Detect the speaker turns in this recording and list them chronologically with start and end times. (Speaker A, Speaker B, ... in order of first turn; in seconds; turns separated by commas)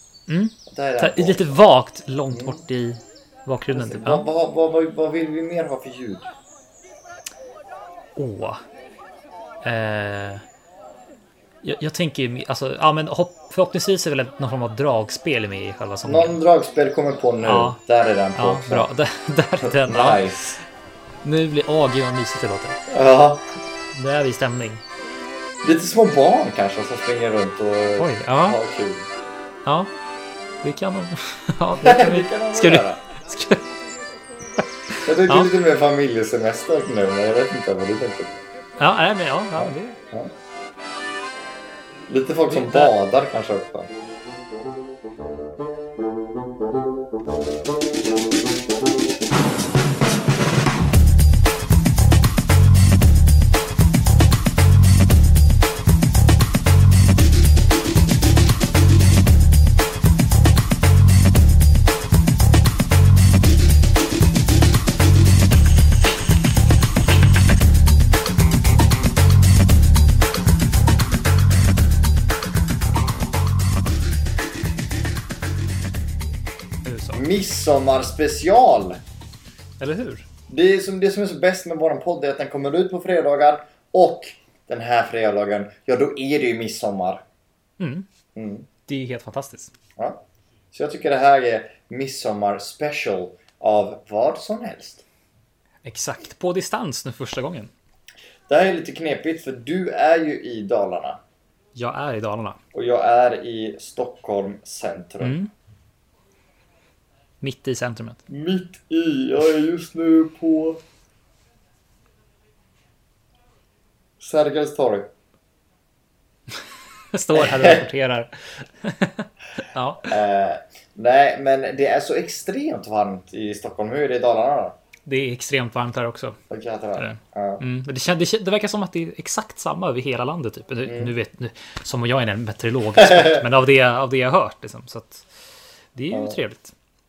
Speaker A: 0.3-4.3, Speaker B: 0.7-1.5, Speaker B: 2.3-2.6, Speaker B: 3.7-6.3, Speaker A: 8.2-8.6, Speaker A: 9.6-10.4, Speaker A: 11.6-16.4, Speaker B: 16.1-18.9, Speaker A: 17.4-17.8, Speaker A: 18.4-20.2, Speaker B: 19.6-20.6, Speaker A: 21.2-22.8, Speaker B: 22.9-23.5, Speaker A: 23.9-24.8, Speaker B: 25.6-29.1, Speaker A: 28.0-28.6, Speaker A: 29.6-29.9, Speaker A: 30.6-33.7, Speaker B: 31.8-33.0, Speaker A: 34.6-35.5, Speaker B: 35.0-38.4, Speaker A: 38.8-40.0, Speaker B: 39.6-40.3, Speaker B: 42.1-43.9, Speaker A: 42.5-42.9, Speaker A: 76.8-77.2, Speaker B: 77.1-79.0, Speaker A: 79.8-80.3, Speaker B: 80.5-87.2, Speaker A: 87.8-88.1, Speaker B: 88.4-88.7, Speaker A: 88.9-89.7, Speaker B: 90.0-95.0, Speaker A: 95.8-97.7, Speaker B: 98.5-101.2, Speaker A: 101.8-102.6, Speaker B: 102.7-105.4, Speaker A: 105.2-105.5, Speaker A: 107.4-108.2, Speaker B: 108.3-110.8, Speaker B: 114.2-115.1, Speaker A: 116.5-120.2, Speaker B: 117.3-117.9, Speaker B: 120.0-124.7, Speaker A: 125.0-126.4, Speaker B: 126.5-127.7, Speaker A: 127.0-135.3, Speaker B: 130.9-131.1, Speaker B: 133.0-133.4, Speaker A: 135.9-136.7